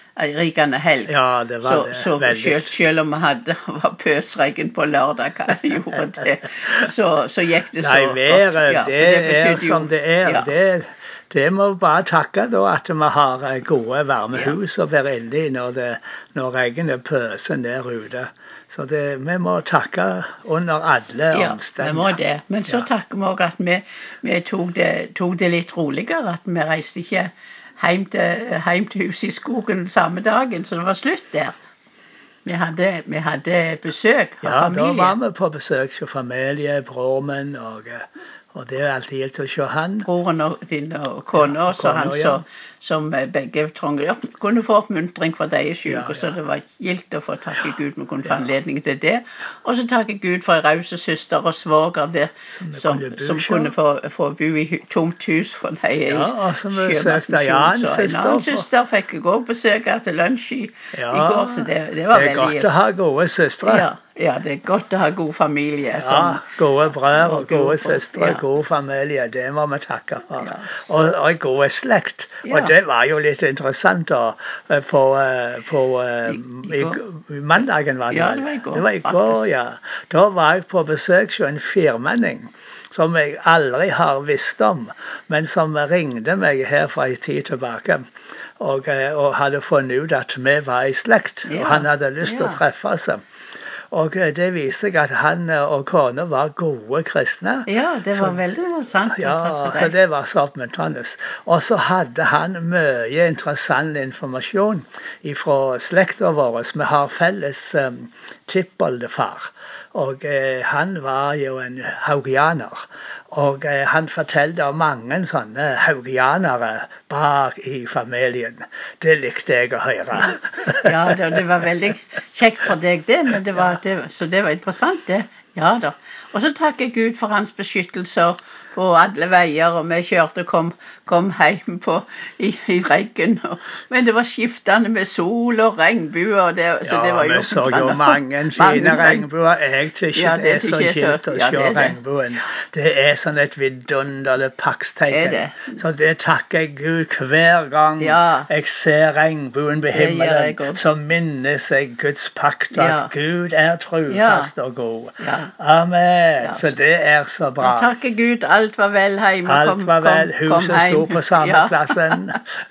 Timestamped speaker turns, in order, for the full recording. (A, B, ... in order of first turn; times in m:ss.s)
0:00.2-0:10.5 A
0:01.1-0:02.7 B
0:07.8-0:22.9 B
0:21.3-0:31.6 A
0:32.4-0:35.2 A
0:34.4-0:40.1 B
0:40.1-1:02.7 A
0:41.3-0:42.4 B
0:45.9-0:46.3 B
0:52.6-0:53.7 B
0:56.1-0:58.7 B
1:00.9-1:03.9 B
1:03.6-1:06.4 A
1:06.0-1:28.0 B
1:07.1-1:08.4 A
1:10.4-1:10.9 A
1:12.5-1:12.7 A
1:16.3-1:17.0 A
1:18.1-1:19.5 A
1:28.6-1:33.2 B
1:31.5-1:32.6 A
1:33.9-1:38.5 B
1:37.7-1:39.9 A
1:39.1-2:01.4 B
2:00.8-2:19.3 A
2:16.8-2:37.9 B
2:20.2-2:22.0 A
2:25.1-2:25.8 A
2:28.0-2:28.5 A
2:29.9-2:30.8 A
2:32.7-2:33.1 A
2:34.1-2:34.5 A
2:35.2-2:35.5 A
2:36.4-2:36.8 A
2:37.6-2:42.4 A
2:39.4-2:42.4 B